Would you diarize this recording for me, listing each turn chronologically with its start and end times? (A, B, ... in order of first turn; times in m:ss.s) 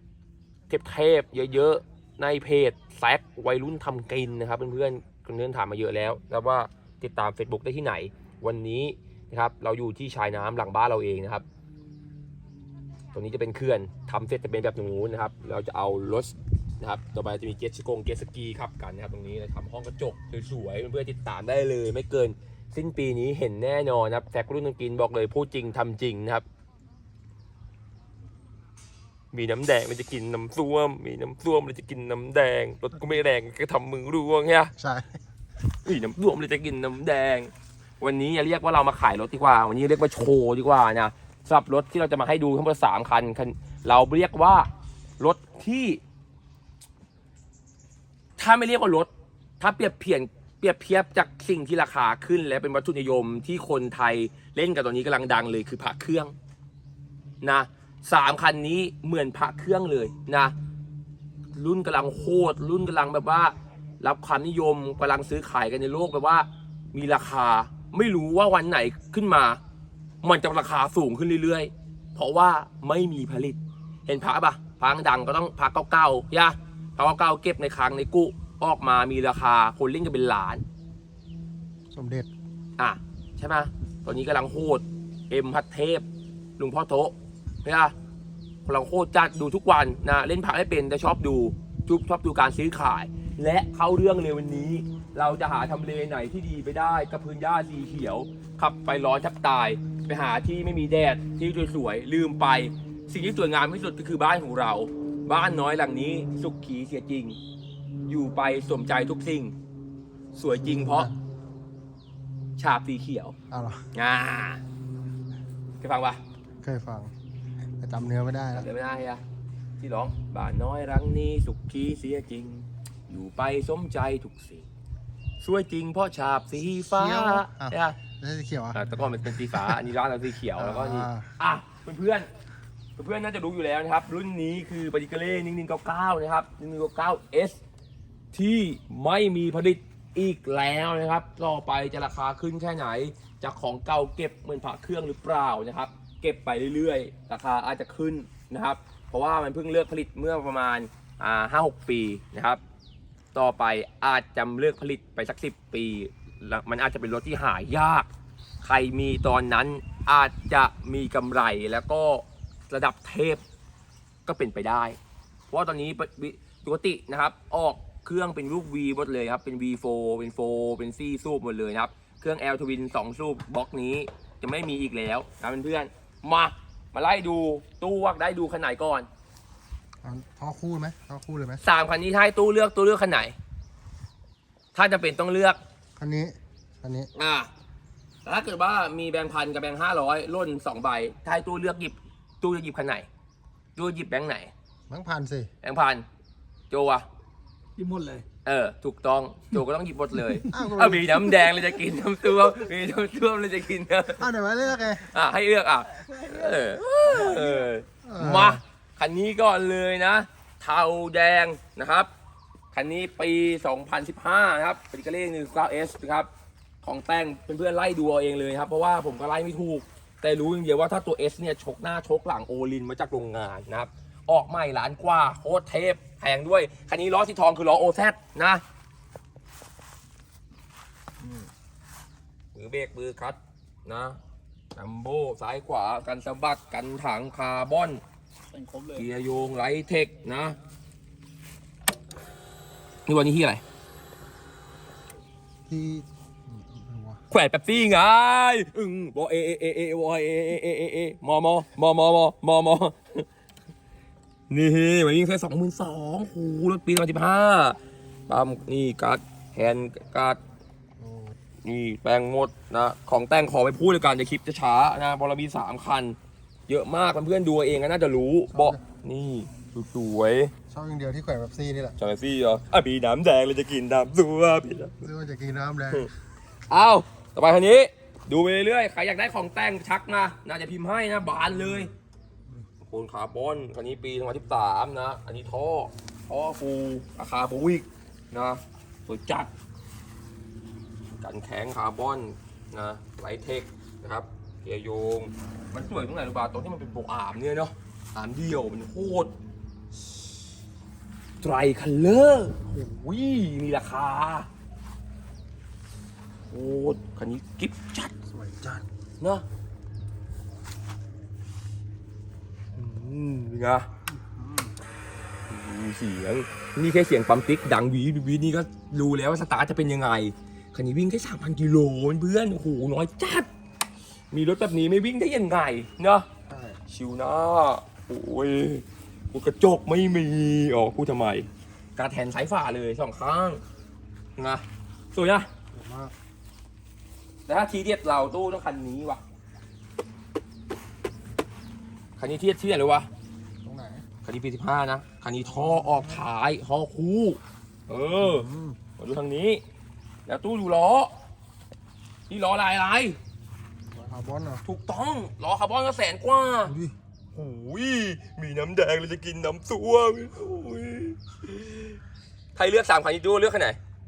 0:00.7-0:11.4 A
0:13.1-0:26.4 A
0:29.3-0:34.7 A
0:34.8-0:35.2 B
0:35.8-0:46.0 A
0:48.4-0:56.3 A
0:57.4-1:00.5 A
1:01.5-1:09.6 A
1:10.2-1:20.6 A
1:21.9-1:22.3 B
1:22.8-1:26.0 A
1:26.6-1:27.9 A
1:28.6-1:47.4 A
1:48.1-1:49.5 A
1:50.3-1:51.1 A
1:50.6-1:51.2 B
1:52.6-1:53.4 A
1:53.5-1:53.9 B
1:53.9-1:54.6 A
1:55.8-1:56.2 A
1:56.6-1:57.1 B
1:57.8-1:58.7 B
1:58.5-1:59.2 A
1:59.8-2:04.6 A
2:05.4-2:08.0 A
2:06.6-2:09.8 B
2:08.7-2:12.3 A
2:10.6-2:11.3 B
2:13.0-2:17.6 A
2:18.3-2:32.6 A
2:33.3-2:38.1 A
2:38.6-2:43.4 A
2:44.2-2:45.0 A
2:45.5-2:59.1 A
3:00.0-3:01.6 B
3:01.6-3:03.3 A
3:04.7-3:05.6 A
3:06.0-3:07.1 B
3:07.1-3:07.5 A
3:08.2-3:13.1 A
3:13.8-3:14.5 A
3:14.9-3:15.5 B
3:15.6-3:16.0 A
3:16.7-3:17.1 A
3:17.8-3:18.3 C
3:18.4-3:24.3 A
3:20.5-3:21.3 B
3:24.2-3:25.1 B
3:25.0-3:32.1 A
3:26.1-3:27.5 C
3:28.0-3:28.6 B
3:32.7-3:36.3 A
3:36.8-3:48.6 A
3:52.5-3:54.2 A
3:54.7-3:58.0 A
3:58.5-3:59.0 C
3:58.9-4:00.6 A
4:03.0-4:03.6 A
4:05.7-4:07.2 B
4:07.3-4:13.3 A
4:14.5-4:20.4 A
4:21.0-4:21.3 B
4:21.6-4:26.2 A
4:26.7-4:30.5 A
4:28.5-4:28.8 B
4:30.7-4:32.0 B
4:32.0-4:35.0 A
4:35.0-4:36.1 B
4:36.7-4:41.9 A
4:42.8-4:49.5 A
4:51.2-4:59.3 A
5:01.4-5:04.5 A
5:06.5-5:08.1 A
5:08.3-5:08.9 B
5:12.7-5:13.9 A
5:14.1-5:14.8 B
5:15.5-5:23.5 A
5:24.3-5:26.3 A
5:26.5-5:26.8 B
5:26.9-5:33.6 A
5:34.4-5:35.5 A
5:35.7-5:36.1 B
5:37.5-5:39.2 A
5:42.2-5:43.1 A
5:43.6-5:44.0 B
5:44.2-5:49.6 A
5:48.2-5:48.8 B
5:50.2-5:51.1 A
5:52.3-5:53.2 A
5:53.9-5:54.6 B
5:54.6-5:56.8 A
5:56.7-5:57.0 B
5:57.3-6:02.0 A
6:02.5-6:03.8 A